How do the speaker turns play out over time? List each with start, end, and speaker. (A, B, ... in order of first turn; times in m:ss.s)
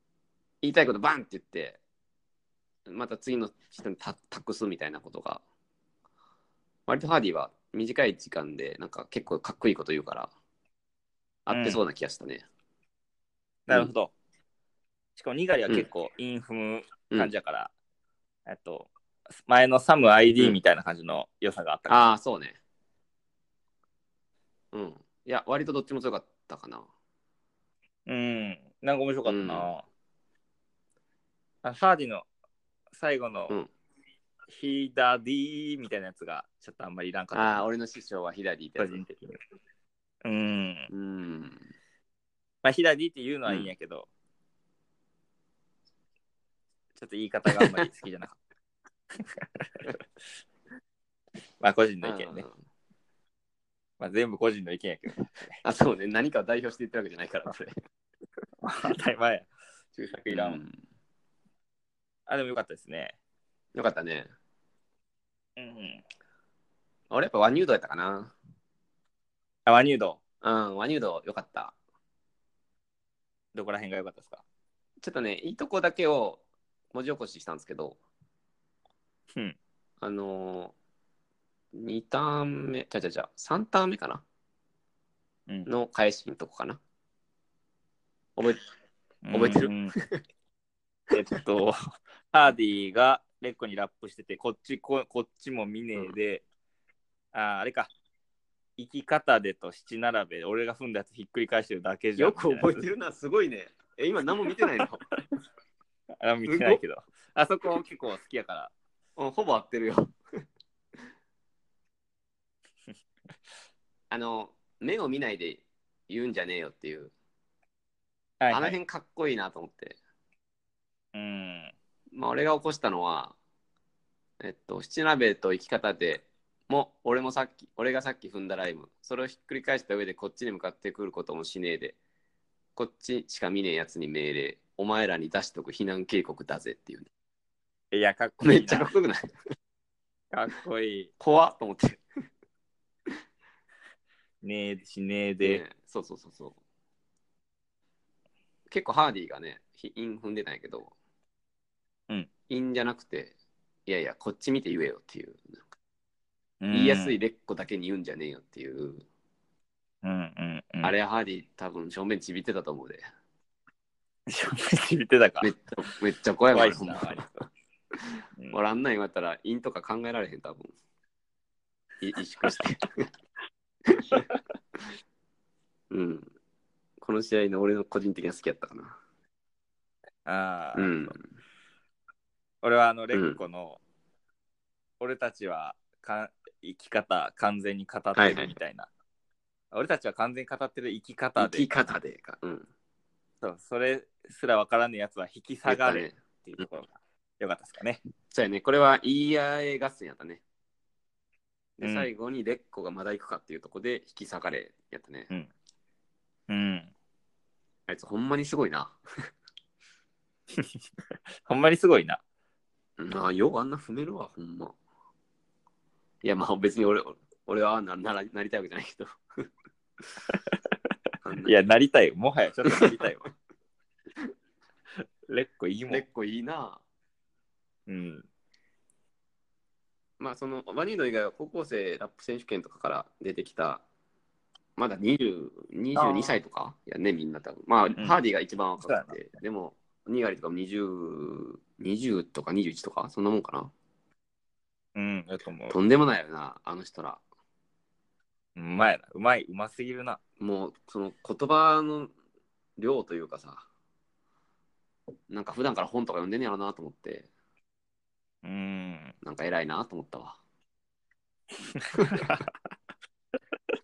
0:00.6-0:01.8 A
0:02.9-0:05.4 A
0:06.9-0:10.3 A
0:11.5-0:12.4 A
0:11.5-0:11.8 B
0:13.7-0:14.1 B
0:15.2-0:17.7 B
0:18.5-0:18.9 B
0:19.4-0:22.0 B
0:21.9-0:22.6 A
0:24.7-0:26.9 A
0:28.1-0:29.8 B
0:29.3-0:29.7 A
0:31.6-0:32.3 B
0:32.9-0:33.5 B
0:34.5-0:37.6 B
0:37.3-0:39.0 A
0:38.8-0:39.4 B
0:40.2-0:40.9 B
0:40.9-0:41.6 A
0:42.6-0:44.1 B
0:43.5-0:43.7 A
0:47.0-0:48.4 B
0:47.5-0:47.8 A
0:49.3-0:49.6 B
0:51.6-0:52.4 B
0:52.0-0:52.6 A
0:54.0-0:55.6 B
0:55.6-0:57.7 A
0:58.6-1:00.6 B
1:00.3-1:00.8 A
1:02.3-1:03.2 B
1:03.8-1:04.3 A
1:05.6-1:06.0 B
1:07.1-1:08.3 A
1:09.7-1:10.2 B
1:10.4-1:11.8 A
1:13.5-1:14.4 B
1:15.0-1:18.0 A
1:20.0-1:20.7 A
1:21.8-1:24.2 A
1:25.7-1:26.8 A
1:28.4-1:28.6 A
1:29.2-1:29.9 B
1:29.3-1:30.2 A
1:31.1-1:31.8 B
1:32.3-1:36.4 B
1:37.3-1:37.9 B
1:38.8-1:42.8 B
1:42.2-1:45.0 A
1:46.2-1:48.7 B
1:46.5-1:46.8 A
1:49.2-1:50.1 A
1:54.1-1:57.1 A
1:58.4-1:58.8 B
1:58.5-2:00.0 A
2:01.1-2:01.7 B
2:02.1-2:03.4 A
2:04.4-2:12.0 A
2:12.8-2:17.1 A
2:17.9-2:18.9 B
2:18.4-2:19.3 A
2:20.3-2:21.1 B
2:21.2-2:22.0 A
2:24.4-2:25.6 B
2:25.4-2:26.6 A
2:28.7-2:30.9 A
2:32.5-2:33.4 A
2:33.9-2:35.6 A
2:36.6-2:37.2 B
2:36.7-2:39.0 A
2:40.0-2:40.9 B
2:40.8-2:43.0 A
2:44.3-2:45.5 B
2:45.4-2:47.3 A
2:46.5-2:47.2 B
2:48.5-2:50.7 A
2:52.0-2:53.1 A
2:53.9-2:54.2 A
2:55.9-2:56.3 A
2:57.0-2:59.0 A
3:00.2-3:01.1 B
3:00.8-3:01.2 A
3:02.6-3:03.8 B
3:03.1-3:03.4 A
3:05.0-3:08.9 B
3:08.2-3:08.6 A
3:09.7-3:11.7 B
3:11.4-3:12.7 A
3:13.4-3:18.0 B
3:15.7-3:16.6 A
3:18.3-3:20.4 A
3:21.8-3:25.3 A
3:21.8-3:22.1 B
3:26.5-3:26.9 B
3:27.9-3:29.0 A
3:31.5-3:32.2 B
3:33.0-3:34.8 A
3:36.2-3:39.2 A
3:41.2-3:41.5 A
3:41.4-3:43.2 B
3:42.7-3:43.0 A
3:45.3-3:46.0 B
3:45.9-3:46.8 A
3:47.9-3:48.3 B
3:50.2-3:53.8 A
3:54.8-4:03.7 A
3:56.0-3:56.3 B
3:58.8-3:59.2 B
4:05.0-4:05.8 B
4:05.7-4:07.2 A
4:08.6-4:10.2 B
4:10.4-4:12.1 A
4:12.8-4:13.7 A
4:15.3-4:17.3 A
4:18.4-4:19.2 B
4:19.2-4:20.4 A
4:21.8-4:22.4 B
4:22.0-4:22.3 A